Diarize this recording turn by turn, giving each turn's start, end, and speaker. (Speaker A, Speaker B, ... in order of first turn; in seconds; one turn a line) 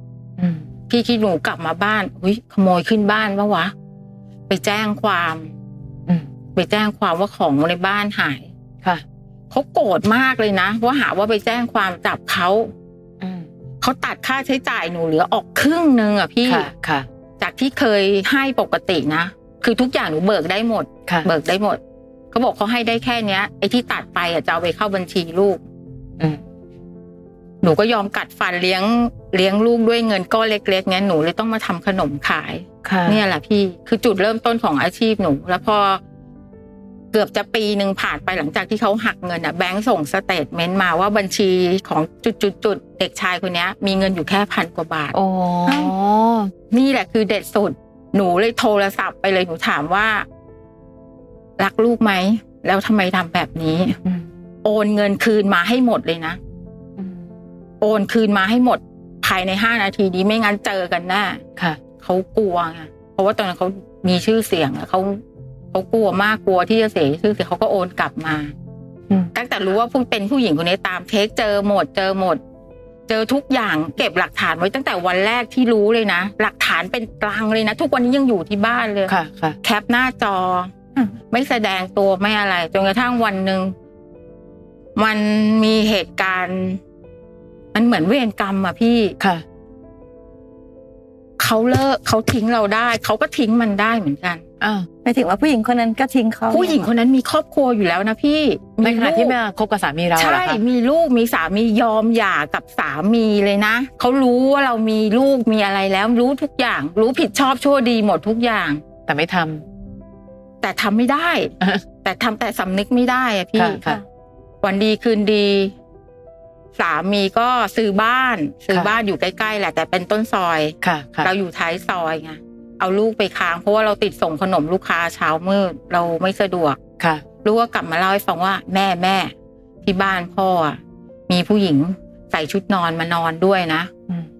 Speaker A: 0.4-0.6
Speaker B: 0.9-3.7
Speaker B: 4.5-5.5
Speaker B: 6.5-8.5
Speaker B: 9.5-12.7
Speaker A: 13.2-13.5
Speaker B: 13.8-16.7
Speaker A: 16.4-17.1
Speaker B: 17.4-21.8
Speaker B: 22.3-25.6
Speaker B: 27.6-36.0
Speaker A: 32.8-33.2
Speaker B: 37.1-45.1
Speaker A: 45.1-46.5
Speaker C: 45.7-45.9
Speaker B: 46.7-50.3
Speaker B: 51.6-54.0
Speaker B: 54.6-56.4
Speaker A: 57.0-57.3
Speaker B: 57.8-61.4
Speaker B: 62.0-65.2
Speaker B: 65.7-68.5
Speaker B: 69.3-72.4
Speaker B: 73.1-83.7
Speaker A: 79.1-79.6
Speaker B: 85.0-86.8
Speaker B: 87.7-89.2
Speaker B: 91.4-94.4
Speaker A: 94.6-94.9
Speaker C: 95.0-96.9
Speaker B: 96.5-99.4
Speaker A: 98.8-100.6
Speaker B: 100.2-108.8
Speaker A: 109.1-109.6
Speaker B: 110.6-114.0
Speaker A: 113.6-114.0
Speaker B: 114.6-115.8
Speaker B: 116.8-126.8
Speaker A: 120.8-121.3
Speaker A: 127.0-127.2
Speaker B: 127.4-129.3
Speaker B: 129.8-133.9